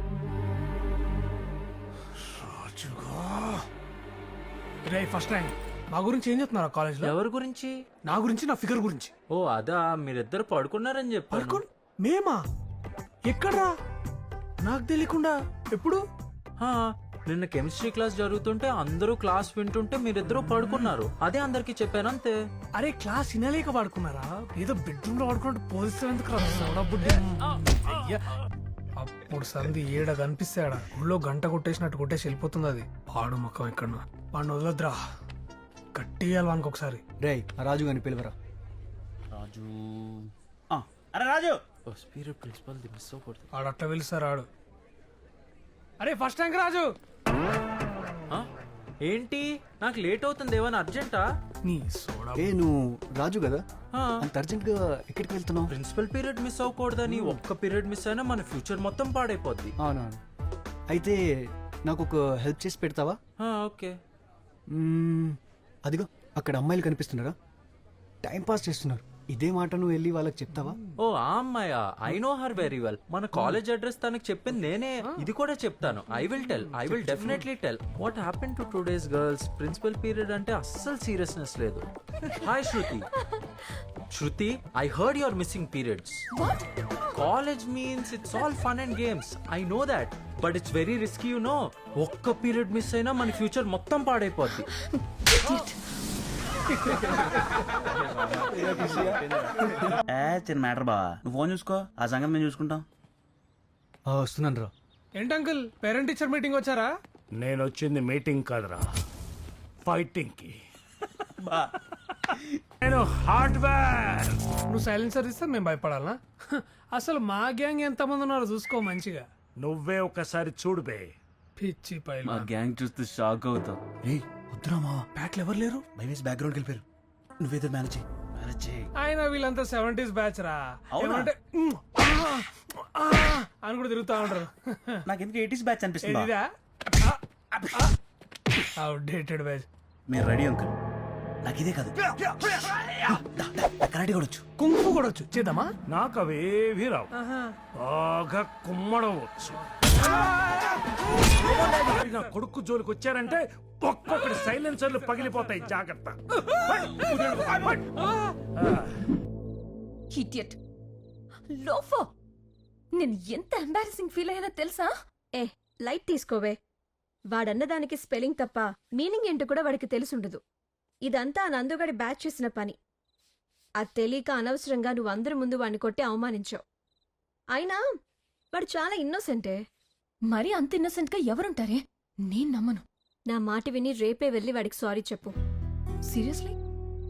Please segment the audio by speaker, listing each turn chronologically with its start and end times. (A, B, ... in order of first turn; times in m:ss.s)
0:02.2-0:03.7 A
0:04.9-0:07.1 A
0:07.0-0:07.7 B
0:08.0-0:09.1 A
0:09.3-0:11.6 B
0:11.3-0:12.4 A
0:13.3-0:13.7 A
0:14.6-0:16.0 A
0:16.6-0:22.4 B
0:22.8-0:28.3 A
0:29.0-0:35.0 A
0:35.9-0:37.0 A
0:37.2-0:38.3 C
0:39.3-0:41.5 D
0:41.9-0:43.4 B
0:43.5-0:44.5 A
0:46.0-0:46.9 A
0:49.0-0:51.2 B
0:51.6-0:52.5 A
0:52.4-0:53.6 C
0:53.9-0:54.2 B
0:54.2-0:55.7 C
0:55.7-0:59.7 B
0:57.0-0:57.4 C
0:59.8-1:00.2 C
1:00.9-1:01.2 C
1:01.8-1:03.2 C
1:03.4-1:03.9 B
1:04.7-1:07.3 C
1:08.2-1:10.8 C
1:11.0-1:23.1 B
1:24.1-1:26.2 B
1:27.1-1:34.7 B
1:35.4-1:35.7 E
1:38.4-1:39.8 C
1:40.2-1:42.8 D
1:44.1-1:44.7 C
1:45.1-1:46.9 A
1:47.4-1:48.8 F
1:49.8-1:50.5 F
1:52.8-1:54.4 F
1:54.7-1:59.2 A
1:59.6-2:01.1 F
2:01.6-2:02.6 A
2:02.3-2:03.8 D
2:04.0-2:05.0 C
2:05.1-2:05.8 A
2:06.0-2:06.8 D
2:07.4-2:08.9 D
2:09.0-2:15.0 A
2:11.0-2:11.3 D
2:15.1-2:16.3 D
2:16.0-2:16.5 A
2:18.8-2:19.6 A
2:20.1-2:20.7 D
2:21.4-2:22.0 D
2:23.1-2:24.4 D
2:24.6-2:25.7 A
2:25.9-2:27.1 F
2:27.2-2:27.6 A
2:27.7-2:30.2 F
2:31.3-2:37.8 F
2:38.6-2:38.8 F
2:40.1-2:40.6 E
2:41.5-2:42.1 E
2:43.0-2:44.9 E
2:45.4-2:46.6 G
2:47.3-2:50.4 G
2:51.0-2:52.8 G
2:53.8-2:56.6 G
2:57.5-2:57.8 G
2:58.5-2:59.6 G
3:00.3-3:02.8 E
3:03.3-3:05.3 G
3:06.1-3:06.5 E